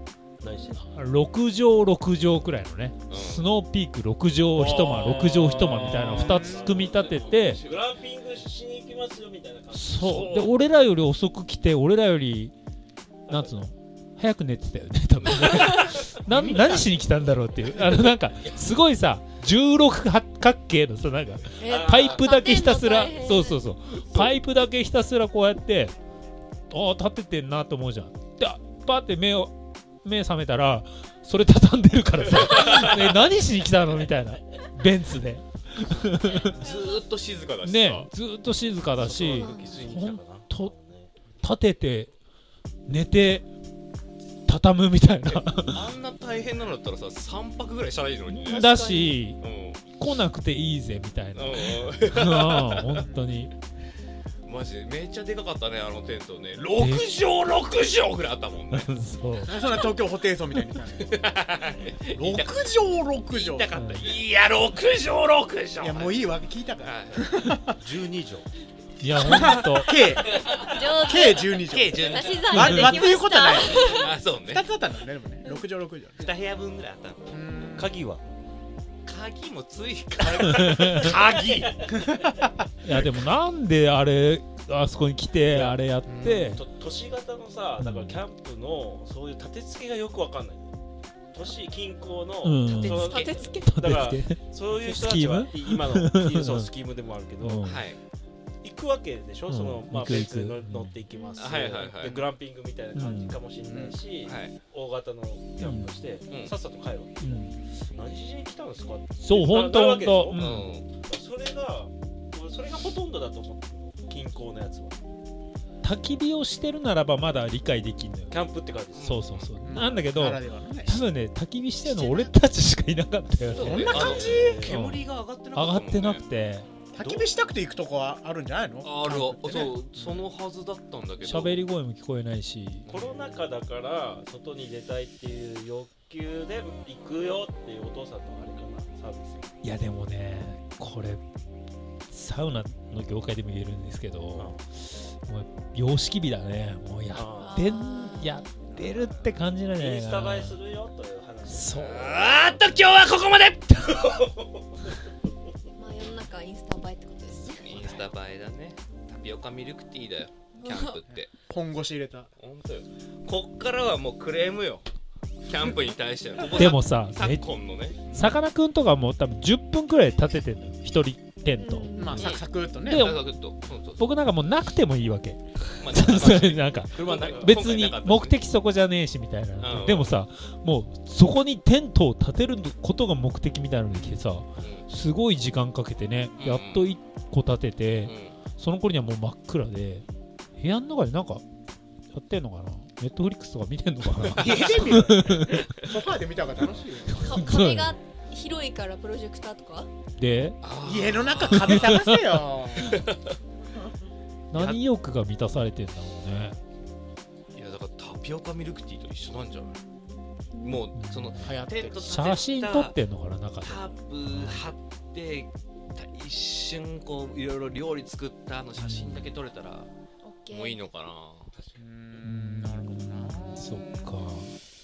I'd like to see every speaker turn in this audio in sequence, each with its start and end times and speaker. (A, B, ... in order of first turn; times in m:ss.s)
0:00.4-0:00.8 A
0:00.8-0:07.6 B
0:03.1-0:03.4 C
0:04.5-0:10.3 A
0:06.0-0:06.8 D
0:06.8-0:07.1 C
0:09.7-0:12.5 B
0:10.1-0:10.5 C
0:13.3-0:13.5 A
0:13.3-0:25.9 B
0:15.2-0:15.7 C
0:15.5-0:16.0 E
0:16.3-0:16.8 D
0:21.6-0:23.6 E
0:21.7-0:22.4 A
0:23.9-0:24.4 C
0:26.7-0:29.5 B
0:30.0-0:36.6 B
0:36.4-0:38.1 C
0:36.6-0:36.9 E
0:37.6-0:40.7 B
0:38.9-0:41.1 A
0:39.3-0:39.8 E
0:41.4-0:42.1 B
0:42.9-0:43.5 B
0:44.4-0:45.8 B
0:45.3-0:48.6 C
0:48.3-0:49.4 B
0:48.5-0:49.2 E
0:49.4-0:49.8 C
0:49.9-0:53.5 B
0:51.3-0:53.1 C
0:54.4-0:58.9 C
0:56.7-0:57.1 B
0:58.7-0:59.5 B
0:59.4-1:01.1 D
0:59.5-0:59.9 C
1:01.0-1:02.8 C
1:02.1-1:03.7 D
1:03.3-1:06.3 C
1:03.7-1:04.1 B
1:05.8-1:07.8 D
1:06.8-1:07.2 C
1:07.8-1:08.5 A
1:09.0-1:10.1 B
1:09.1-1:10.4 D
1:10.4-1:14.1 E
1:11.0-1:16.2 D
1:11.6-1:12.5 C
1:12.5-1:13.0 B
1:13.6-1:14.6 C
1:16.2-1:17.3 C
1:17.3-1:17.9 D
1:17.8-1:18.2 A
1:19.0-1:21.8 C
1:20.2-1:21.9 A
1:20.6-1:21.1 B
1:21.9-1:22.4 D
1:22.8-1:26.6 B
1:25.4-1:30.7 A
1:26.0-1:26.6 D
1:27.8-1:28.2 B
1:31.3-1:37.8 A
1:32.4-1:36.7 B
1:32.6-1:33.8 E
1:37.4-1:37.8 B
1:37.6-1:38.0 C
1:38.6-1:50.4 A
1:39.5-1:41.0 B
1:41.2-1:41.5 E
1:41.3-1:42.3 C
1:42.9-1:43.4 B
1:43.6-1:44.0 D
1:44.2-1:44.5 C
1:45.6-1:46.0 B
1:46.3-1:46.5 C
1:47.2-1:47.5 B
1:49.2-1:50.7 B
1:50.4-1:50.9 C
1:50.9-1:55.0 A
1:55.8-1:58.4 B
1:58.3-1:59.2 A
1:58.9-1:59.8 C
1:59.0-2:04.1 B
1:59.6-2:01.1 D
2:01.8-2:02.4 D
2:03.5-2:04.6 D
2:03.5-2:06.2 C
2:03.6-2:04.8 A
2:04.6-2:06.7 B
2:06.9-2:09.8 D
2:07.0-2:07.3 A
2:08.8-2:11.6 C
2:11.2-2:12.8 B
2:12.9-2:13.2 C
2:12.9-2:19.5 A
2:19.6-2:21.2 B
2:22.1-2:30.6 B
2:24.3-2:24.6 A
2:27.1-2:27.6 A
2:27.4-2:28.7 E
2:29.7-2:32.8 A
2:31.5-2:32.1 B
2:31.7-2:34.3 C
2:34.1-2:34.7 A
2:35.8-2:38.1 E
2:37.4-2:41.3 C
2:40.6-2:41.0 E
2:41.5-2:42.3 D
2:42.4-2:44.8 C
2:45.4-2:48.1 C
2:46.5-2:47.5 B
2:48.0-2:52.0 B
2:48.1-2:48.4 D
2:51.6-2:52.4 E
2:52.0-2:53.2 D
2:52.1-2:54.1 C
2:52.8-3:10.0 B
2:55.8-2:58.4 C
2:56.9-2:57.6 A
2:59.6-3:00.2 C
3:03.9-3:04.8 C
3:06.4-3:06.9 C
3:08.0-3:08.4 C
3:10.6-3:11.4 B
3:12.1-3:15.6 B
3:14.4-3:17.3 D
3:17.1-3:17.9 B
3:17.2-3:19.9 E
3:20.2-3:20.6 B
3:20.6-3:22.1 C
3:20.8-3:23.0 D
3:21.5-3:22.2 B
3:22.8-3:23.3 C
3:24.5-3:26.6 B
3:24.5-3:24.8 C
3:27.5-3:29.8 C
3:29.5-3:30.8 E
3:30.6-3:32.9 C
3:30.9-3:34.6 B
3:31.4-3:32.2 D
3:33.6-3:39.9 C
3:38.8-3:39.3 B
3:40.2-3:40.8 E
3:40.5-3:41.5 C
3:41.8-3:43.9 D
3:42.2-3:44.5 B